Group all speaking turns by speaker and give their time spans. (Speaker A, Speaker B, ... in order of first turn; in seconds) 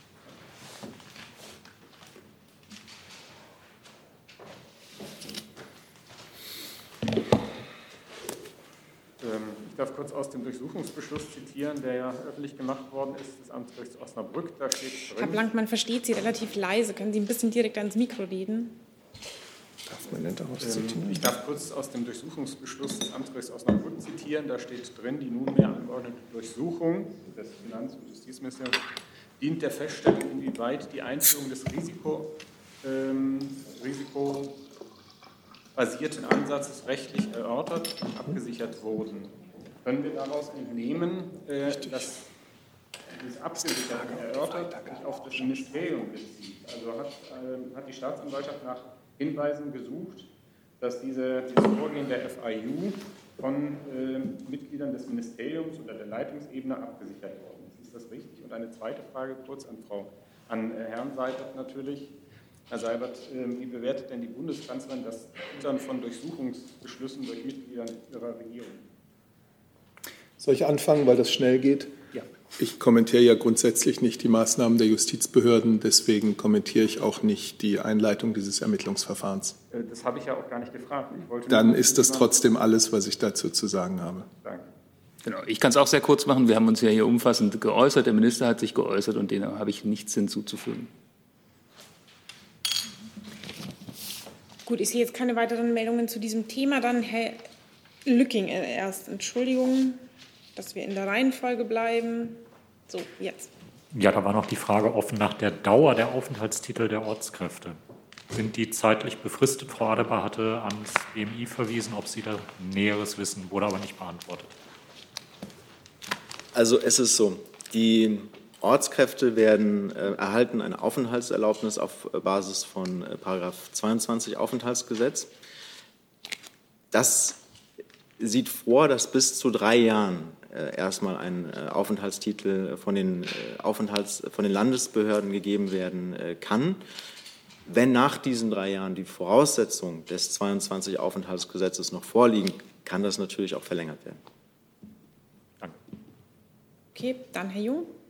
Speaker A: 9.2-15.4, 20.6-28.8, 29.4-32.3, 32.8-34.6, 35.8-42.2, 43.1-50.3, 50.8-62.1, 62.7-68.8, 79.7-82.5, 84.4-84.7
Speaker B: 15.2-18.8, 94.7-97.4, 98.0-100.0, 100.6-103.5, 146.9-147.9
Speaker C: 19.9-21.4, 70.4-71.9, 72.6-79.6, 81.5-84.3
Speaker D: 85.2-90.9
Speaker E: 103.9-107.8, 108.3-114.5
Speaker F: 116.5-125.3, 126.9-127.4, 128.2-136.8, 137.7-144.2